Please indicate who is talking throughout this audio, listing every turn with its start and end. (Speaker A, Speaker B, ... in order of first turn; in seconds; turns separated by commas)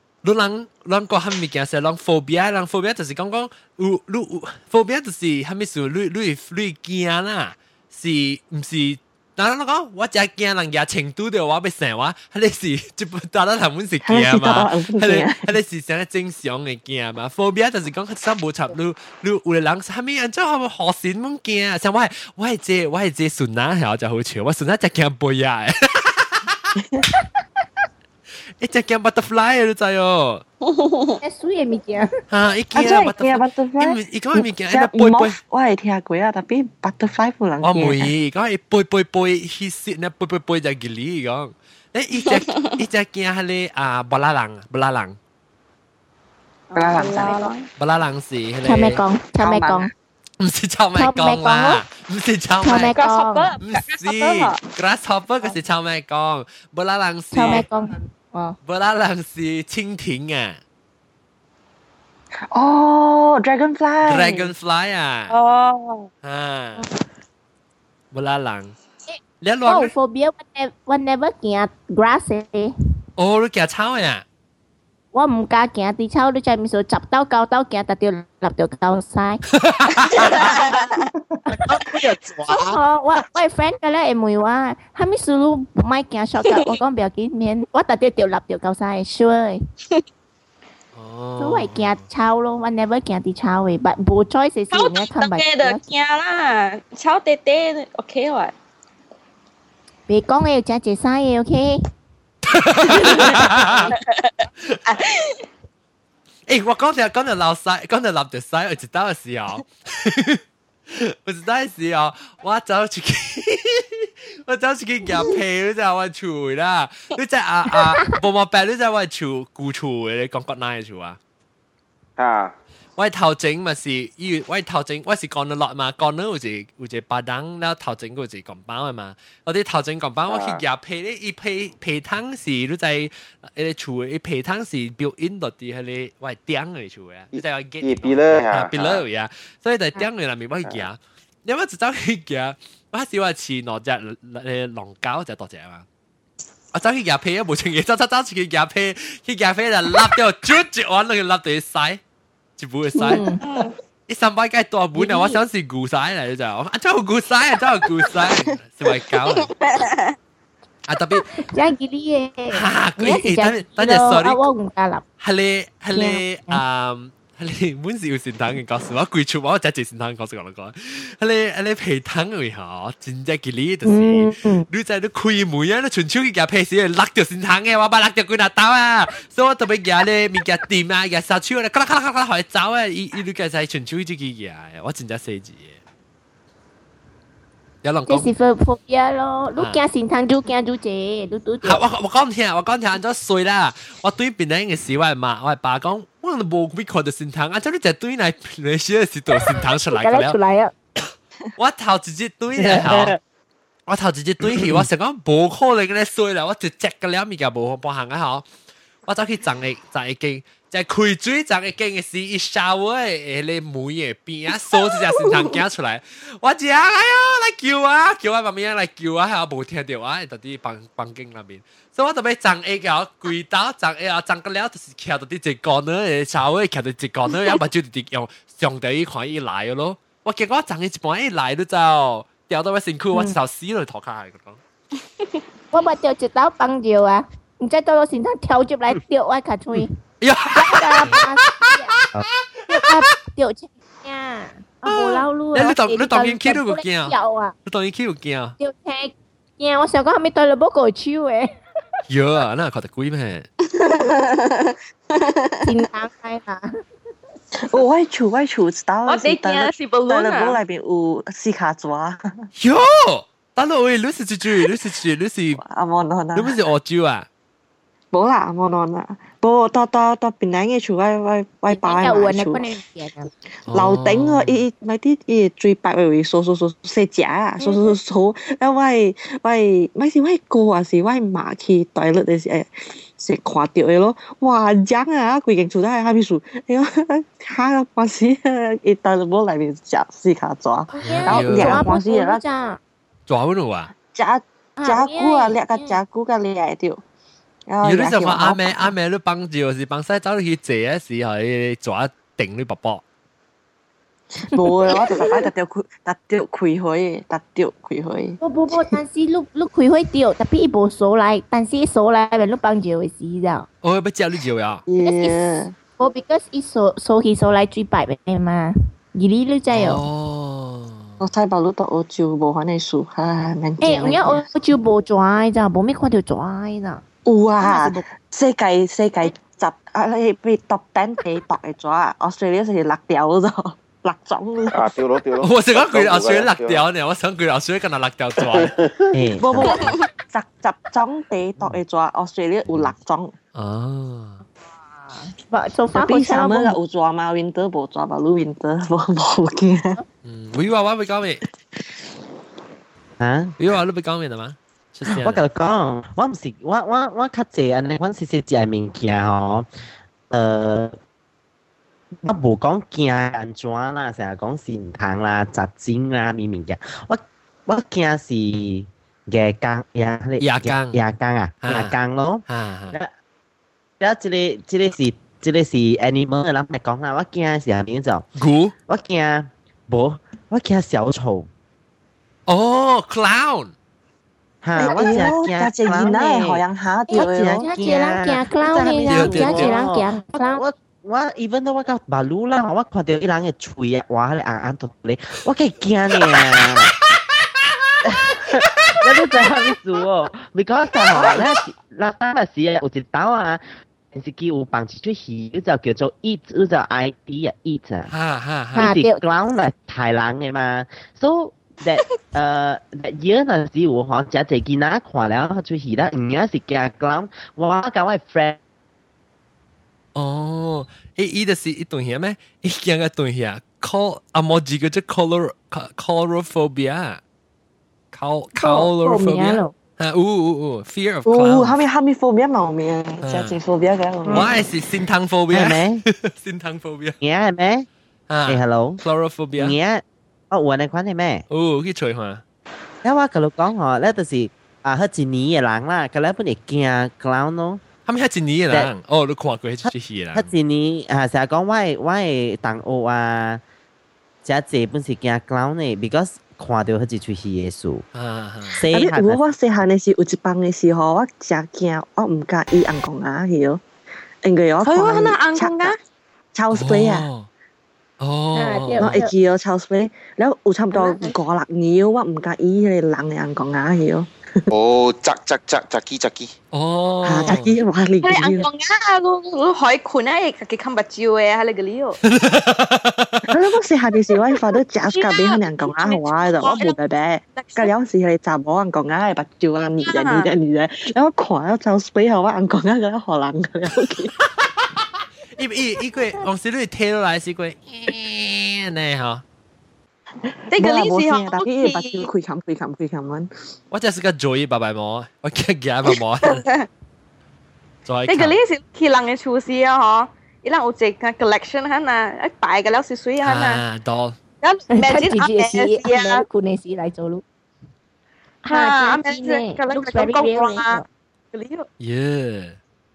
Speaker A: 0.2-26.7, Speaker B: 14.0-15.5, Speaker B: 26.8-27.1, Speaker A: 28.6-30.4, Speaker C: 30.6-31.2, Speaker D: 31.2-32.1, Speaker A: 32.3-35.4, Speaker B: 32.7-38.1, Speaker A: 37.6-45.2, Speaker C: 42.3-42.7, Speaker B: 46.7-47.5, Speaker C: 46.7-47.7, Speaker A: 47.8-49.0, Speaker D: 48.6-49.9, Speaker B: 49.4-49.9, Speaker A: 50.4-52.9, Speaker D: 51.0-51.8, Speaker D: 52.6-53.5, Speaker C: 52.9-54.6, Speaker A: 53.6-57.6, Speaker D: 57.3-58.5, Speaker A: 58.6-60.6, Speaker B: 62.5-64.5, Speaker A: 64.0-65.3, Speaker C: 65.3-66.1, Speaker A: 66.2-66.8, Speaker A: 68.1-68.7, Speaker D: 69.1-72.7, Speaker A: 69.4-69.9, Speaker A: 73.2-74.2, Speaker D: 75.1-79.4, Speaker A: 79.6-80.3, Speaker C: 80.1-81.1, Speaker E: 80.2-80.5, Speaker E: 81.6-82.8, Speaker D: 82.5-89.6, Speaker C: 86.5-86.7, Speaker A: 90.9-92.0, Speaker D: 91.4-95.8, Speaker C: 94.7-98.5, Speaker D: 100.1-101.8, Speaker A: 102.5-103.9, Speaker D: 103.0-103.9, Speaker C: 104.0-105.4, Speaker A: 106.5-121.2, Speaker E: 122.2-122.5, Speaker A: 123.0-145.8, Speaker E: 130.3-130.6, Speaker E: 137.3-139.0, Speaker A: 146.7-152.0, Speaker A: 152.6-153.2, Speaker D: 152.9-153.4, Speaker C: 153.4-153.7, Speaker A: 154.1-159.5, Speaker D: 155.0-155.4, Speaker C: 159.3-160.1, Speaker A: 160.9-161.2, Speaker D: 161.4-165.0, Speaker A: 162.5-164.4, Speaker A: 165.2-185.8, Speaker D: 165.9-166.6, Speaker D: 173.8-174.7, Speaker A: 187.8-188.3, Speaker D: 188.1-191.8, Speaker A: 191.6-200.3, Speaker D: 199.9-200.7, Speaker A: 201.6-203.2, Speaker F: 202.5-203.2, Speaker A: 203.9-208.4, Speaker F: 204.4-204.8, Speaker A: 209.1-234.6, Speaker D: 235.7-239.9, Speaker A: 240.2-241.2, Speaker D: 240.5-241.9, Speaker D: 242.7-247.5, Speaker A: 244.8-248.5, Speaker D: 248.6-251.5, Speaker A: 252.1-253.5, Speaker D: 255.6-256.7, Speaker B: 257.6-262.5, Speaker C: 259.1-260.6, Speaker A: 262.6-265.6, Speaker B: 265.5-266.6, Speaker A: 266.3-267.3, Speaker B: 268.1-272.6, Speaker D: 271.7-273.3, Speaker A: 273.7-274.6, Speaker B: 273.7-292.4, Speaker D: 277.6-277.9, Speaker D: 290.9-292.8, Speaker A: 291.0-291.9, Speaker A: 293.3-293.9, Speaker B: 294.0-297.0, Speaker D: 294.8-296.0, Speaker B: 297.7-298.9, Speaker A: 297.8-303.0, Speaker B: 304.5-308.4, Speaker D: 308.4-313.7, Speaker A: 313.8-314.8, Speaker B: 314.9-315.7, Speaker D: 315.0-320.0, Speaker A: 319.7-321.2, Speaker B: 321.2-324.4, Speaker D: 323.8-327.0, Speaker B: 327.2-334.9, Speaker D: 327.6-328.0, Speaker E: 334.7-336.8, Speaker A: 335.4-338.7, Speaker F: 339.1-339.7, Speaker B: 339.4-343.3, Speaker A: 343.5-344.4, Speaker D: 345.1-346.8, Speaker B: 345.9-350.0, Speaker A: 350.2-351.4, Speaker F: 353.2-353.5, Speaker A: 353.6-355.4, Speaker F: 355.2-359.7, Speaker F: 360.3-361.0, Speaker F: 362.2-373.1, Speaker A: 370.4-371.0, Speaker A: 371.6-371.9, Speaker A: 372.5-373.0, Speaker F: 374.0-378.2, Speaker A: 378.4-378.7, Speaker F: 378.9-381.5, Speaker A: 382.5-383.7, Speaker F: 384.6-386.6, Speaker B: 384.7-387.7, Speaker D: 387.1-390.6, Speaker F: 387.1-396.9, Speaker A: 389.1-389.7, Speaker F: 398.0-408.1, Speaker A: 408.1-408.9, Speaker F: 408.7-418.6, Speaker D: 408.8-409.2, Speaker A: 420.1-427.2, Speaker A: 428.1-431.8, Speaker D: 428.6-429.7, Speaker B: 431.2-434.5, Speaker A: 433.2-433.6, Speaker A: 434.3-437.2, Speaker F: 435.5-436.0, Speaker F: 437.2-437.9, Speaker A: 438.3-439.7, Speaker F: 438.5-439.0, Speaker F: 439.6-441.4, Speaker A: 441.5-442.4, Speaker F: 443.0-447.8, Speaker A: 448.1-450.5, Speaker F: 449.8-453.6, Speaker F: 454.4-458.0, Speaker A: 458.1-458.8, Speaker F: 458.8-459.4, Speaker B: 458.9-463.8, Speaker B: 464.4-465.9, Speaker C: 464.8-466.0, Speaker B: 466.5-467.3, Speaker A: 466.7-467.5, Speaker A: 468.2-469.1, Speaker D: 468.5-469.3, Speaker B: 469.0-474.7, Speaker D: 470.9-471.3, Speaker E: 474.7-476.5, Speaker A: 476.7-477.7, Speaker B: 477.2-478.7, Speaker C: 478.2-482.2, Speaker A: 482.2-483.4, Speaker B: 483.5-494.3, Speaker C: 485.1-487.0, Speaker C: 487.5-487.9, Speaker C: 490.0-490.5, Speaker A: 494.6-495.1, Speaker A: 495.6-499.4, Speaker B: 500.7-503.5, Speaker C: 500.7-502.3, Speaker A: 503.9-506.6, Speaker C: 506.4-506.9, Speaker A: 508.1-508.6, Speaker C: 508.3-513.8, Speaker A: 513.4-514.4, Speaker C: 514.6-516.4, Speaker D: 514.9-517.4, Speaker C: 518.6-521.9, Speaker D: 518.7-521.0, Speaker A: 522.0-522.8